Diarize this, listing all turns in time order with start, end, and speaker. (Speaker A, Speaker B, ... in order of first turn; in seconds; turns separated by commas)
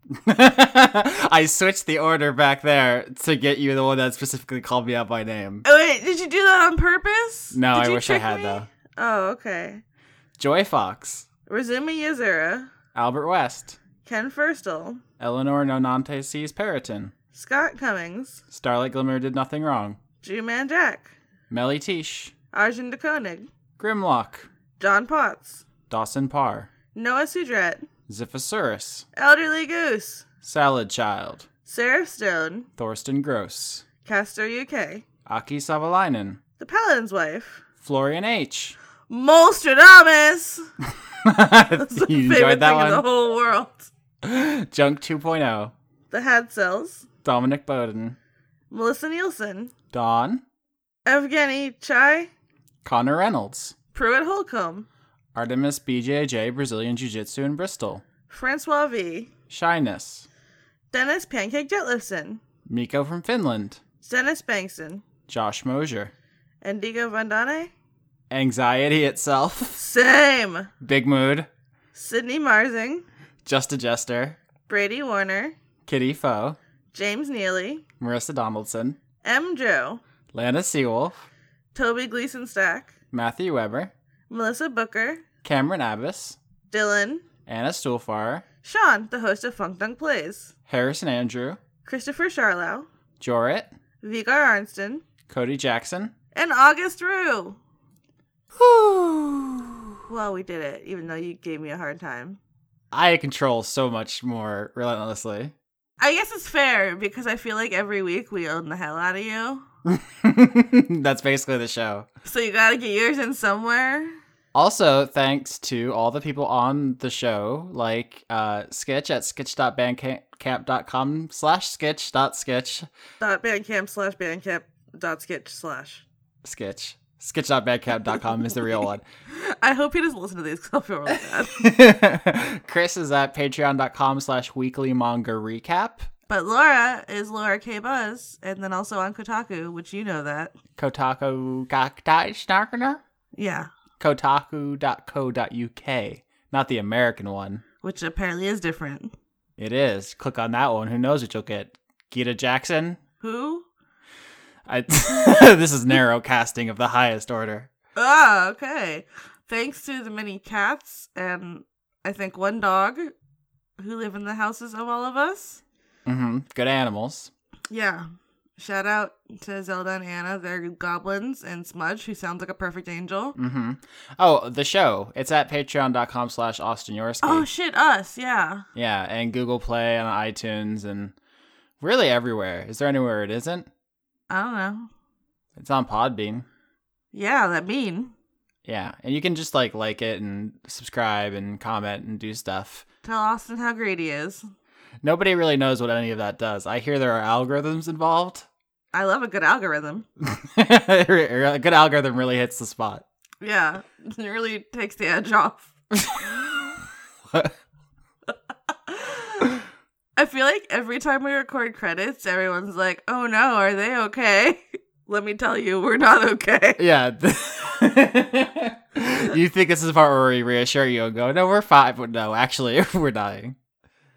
Speaker A: 0.1-5.6, Speaker B: 5.7-9.8, Speaker A: 7.5-8.7, Speaker A: 10.4-11.3, Speaker B: 11.5-12.7, Speaker A: 12.9-13.8, Speaker B: 14.1-15.0, Speaker A: 15.2-17.1, Speaker B: 17.3-18.4, Speaker A: 18.5-20.0, Speaker B: 20.2-21.1, Speaker A: 21.5-22.3, Speaker B: 22.5-23.5, Speaker A: 23.8-24.5, Speaker B: 24.8-25.6, Speaker A: 25.9-26.7, Speaker B: 26.9-27.9, Speaker A: 28.1-29.1, Speaker B: 29.2-30.3, Speaker A: 30.4-31.5, Speaker B: 31.7-32.7, Speaker A: 32.8-33.9, Speaker B: 34.0-35.0, Speaker A: 35.3-36.4, Speaker B: 36.6-37.7, Speaker A: 37.8-38.8, Speaker B: 39.1-40.6, Speaker A: 41.2-43.0, Speaker B: 41.9-43.9, Speaker A: 44.2-45.7, Speaker B: 46.1-47.1, Speaker A: 47.2-48.2, Speaker B: 48.7-49.7, Speaker A: 49.9-50.4, Speaker B: 51.1-52.3, Speaker A: 52.8-53.8, Speaker B: 53.9-54.9, Speaker A: 55.4-58.0, Speaker B: 58.3-59.3, Speaker A: 59.5-60.3, Speaker B: 60.9-62.4, Speaker A: 62.7-63.8, Speaker B: 64.0-65.0, Speaker A: 65.3-66.1, Speaker B: 66.6-67.7, Speaker A: 68.3-69.8, Speaker B: 69.8-70.7, Speaker A: 70.8-71.5, Speaker B: 71.9-73.1, Speaker A: 73.5-74.4, Speaker B: 74.7-75.6, Speaker A: 75.9-76.6, Speaker B: 76.9-77.9, Speaker A: 78.0-79.0, Speaker B: 79.2-80.0, Speaker A: 80.3-81.2, Speaker B: 81.7-82.9, Speaker A: 83.1-83.9, Speaker B: 84.3-85.3, Speaker A: 85.4-86.4, Speaker B: 86.7-87.3, Speaker A: 87.5-88.4, Speaker B: 88.6-90.5, Speaker A: 90.7-91.6, Speaker B: 91.8-92.9, Speaker A: 93.2-93.7, Speaker B: 94.0-95.0, Speaker A: 95.3-96.1, Speaker B: 96.3-97.6, Speaker A: 98.6-100.0, Speaker B: 100.1-102.4, Speaker A: 102.9-105.5, Speaker B: 106.0-109.6, Speaker A: 109.9-112.1, Speaker B: 112.3-114.2, Speaker A: 114.5-122.9, Speaker B: 123.2-126.0, Speaker A: 126.4-129.0, Speaker B: 129.3-131.7, Speaker A: 131.1-136.1, Speaker B: 136.3-140.6, Speaker A: 140.8-143.0, Speaker B: 143.4-143.7, Speaker A: 144.0-147.6, Speaker B: 147.8-149.1, Speaker A: 149.6-153.0, Speaker B: 153.2-153.7, Speaker A: 154.7-157.7, Speaker B: 158.0-163.1, Speaker B: 163.8-165.6, Speaker A: 166.1-167.3, Speaker B: 167.7-173.4, Speaker A: 173.4-177.5, Speaker B: 177.2-178.7, Speaker A: 178.8-181.1, Speaker A: 181.8-183.7, Speaker B: 184.3-184.9, Speaker A: 185.6-186.5, Speaker B: 187.1-188.1, Speaker A: 188.7-192.8, Speaker B: 193.0-194.4, Speaker A: 195.0-198.5, Speaker B: 198.9-200.1, Speaker A: 200.2-203.0, Speaker B: 203.4-205.7, Speaker A: 205.9-206.4, Speaker B: 208.9-209.5, Speaker B: 210.2-216.8, Speaker A: 216.8-223.6